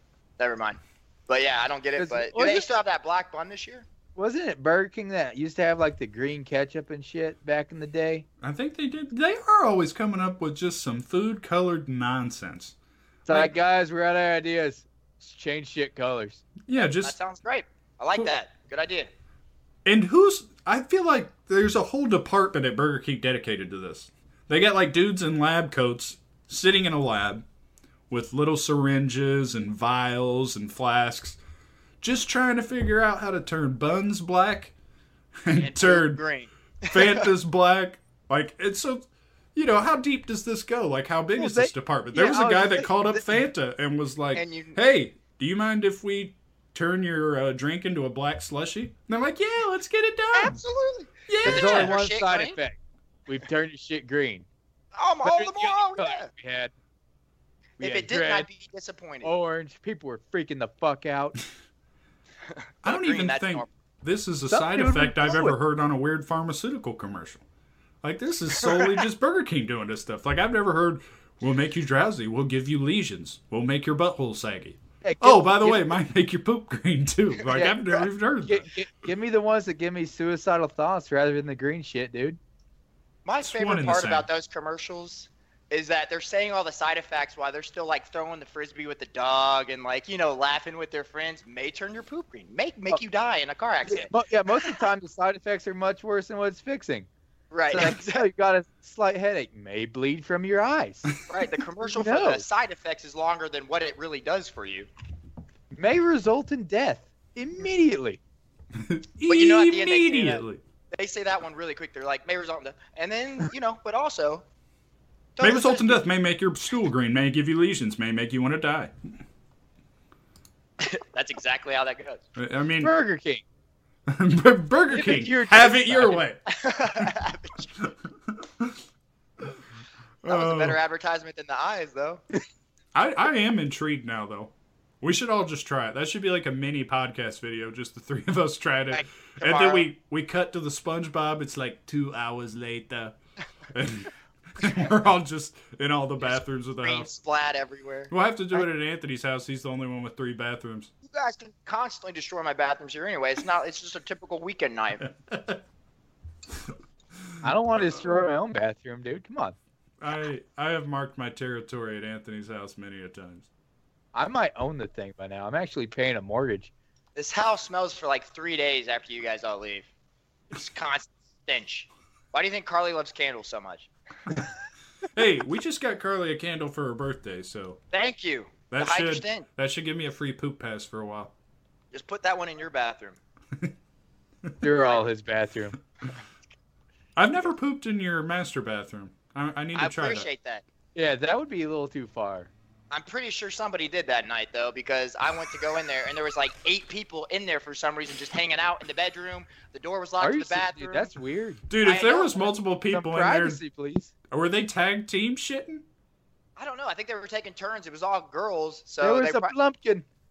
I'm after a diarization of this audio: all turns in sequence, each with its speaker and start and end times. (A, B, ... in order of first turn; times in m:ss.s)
0:00.4-0:03.9 A
0:02.0-0:02.6 B
0:04.2-0:08.2 B
0:08.4-0:12.7 C
0:13.2-0:16.4 B
0:16.6-0:17.2 C
0:16.7-0:19.1 A
0:19.8-0:27.4 C
0:28.1-0:31.4 C
0:32.0-0:34.7 C
0:35.4-0:36.2 C
0:35.5-0:37.2 A
0:36.9-0:50.6 C
0:41.4-0:42.9 B
0:44.3-0:44.8 A
0:50.3-0:52.6 A
0:51.3-0:52.0 C
0:51.4-0:54.4 B
0:54.9-0:56.3 A
0:55.2-0:56.7 B
0:57.8-0:58.5 B
0:57.8-0:59.3 A
0:59.2-1:01.4 B
1:02.8-1:03.7 A
1:02.8-1:07.4 C
1:04.5-1:05.6 B
1:08.0-1:18.6 C
1:15.0-1:15.9 B
1:17.5-1:18.0 A
1:18.4-1:22.4 B
1:23.2-1:34.1 A
1:23.4-1:24.3 C
1:33.9-1:37.1 B
1:37.5-1:38.2 A
1:37.7-1:41.1 B
1:41.3-1:44.9 A
1:41.9-1:42.4 B
1:45.8-1:48.2 B
1:48.8-1:50.6 C
1:49.2-1:54.4 A
1:55.4-1:56.0 A
1:55.4-1:59.2 C
2:00.8-2:02.2 A
2:02.4-2:02.9 C
2:02.8-2:03.4 B
2:04.1-2:06.4 C
2:04.9-2:06.2 B
2:06.5-2:07.7 A
2:08.3-2:08.8 C
2:10.2-2:10.8 C
2:10.3-2:12.2 A
2:12.9-2:23.2 C
2:18.9-2:19.9 A
2:23.7-2:27.1 C
2:26.2-2:28.6 A
2:28.1-2:30.9 C
2:31.0-2:35.0 A
2:35.0-2:35.6 C
2:37.4-2:39.6 B
2:40.0-2:43.5 C
2:44.1-2:46.7 B
2:47.1-2:49.9 A
2:50.5-2:53.9 A
2:55.1-2:57.8 C
2:57.9-2:59.4 A
2:58.7-3:01.3 C
3:01.9-3:03.2 A
3:04.6-3:05.8 B
3:07.2-3:10.3 C
3:09.7-3:10.6 A
3:10.9-3:12.5 B
3:12.9-3:21.1 A
3:20.2-3:21.6 B
3:21.7-3:23.6 C
3:21.8-3:22.5 A
3:22.9-3:24.1 B
3:24.3-3:25.8 C
3:26.6-3:29.5 A
3:29.0-3:30.0 B